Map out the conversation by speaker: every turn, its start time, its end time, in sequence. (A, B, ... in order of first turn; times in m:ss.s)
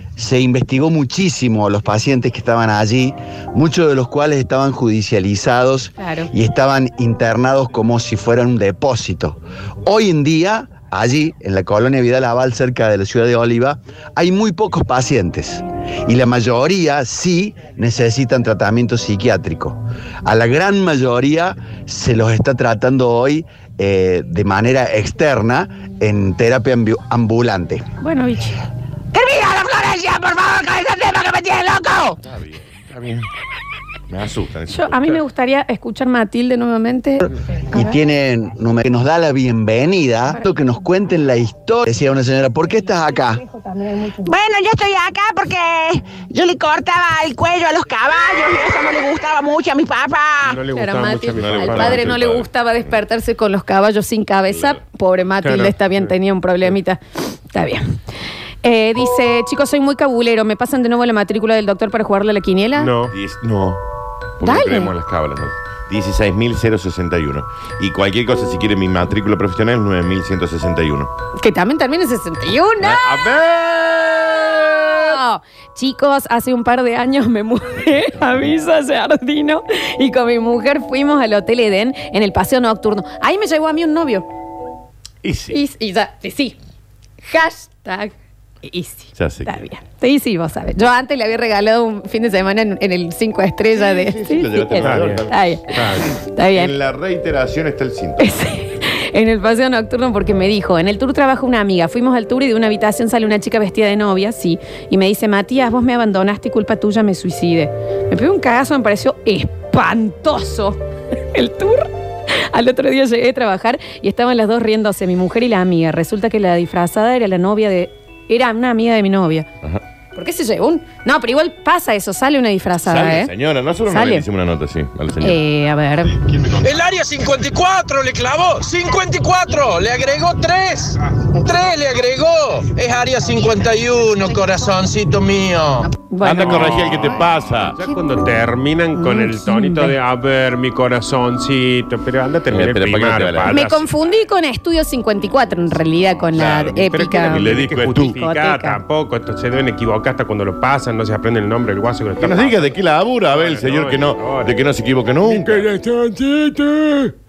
0:00.2-0:27.9 A
0:06.0-0:06.3 B
0:28.0-0:28.6 B
0:29.1-0:32.2 C
0:32.2-0:33.3 D
0:34.1-0:35.2 D
0:34.7-0:37.9 B
0:37.7-0:43.4 A
0:44.2-0:50.6 C
0:50.4-0:52.1 E
0:50.7-0:58.0 B
0:51.4-0:52.5 D
0:54.5-0:54.8 D
0:55.4-0:56.1 E
0:58.6-1:02.9 B
1:02.8-1:03.1 E
1:03.1-1:03.8 D
1:04.4-1:11.1 D
1:04.4-1:04.9 B
1:11.4-1:13.3 B
1:12.8-1:15.2 D
1:14.1-1:24.3 B
1:25.2-1:25.6 D
1:25.5-1:26.6 B
1:27.2-1:36.7 B
1:29.2-1:29.6 D
1:33.7-1:36.0 D
1:34.8-1:36.1 E
1:36.5-1:38.4 D
1:38.2-1:50.8 B
1:51.3-1:59.5 B
2:00.2-2:03.3 B
2:02.8-2:05.4 D
2:03.9-2:04.2 B
2:05.2-2:06.2 B
2:06.6-2:15.9 F
2:16.1-2:17.2 B
2:16.2-2:17.8 D
2:16.4-2:17.2 E
2:17.8-2:23.9 E
2:19.0-2:20.0 B
2:22.5-2:23.6 D
2:23.5-2:28.8 B
2:26.4-2:26.7 D
2:26.5-2:32.8 E
2:27.2-2:28.2 D
2:32.2-2:35.7 D
2:33.3-2:34.6 E
2:35.2-2:37.1 E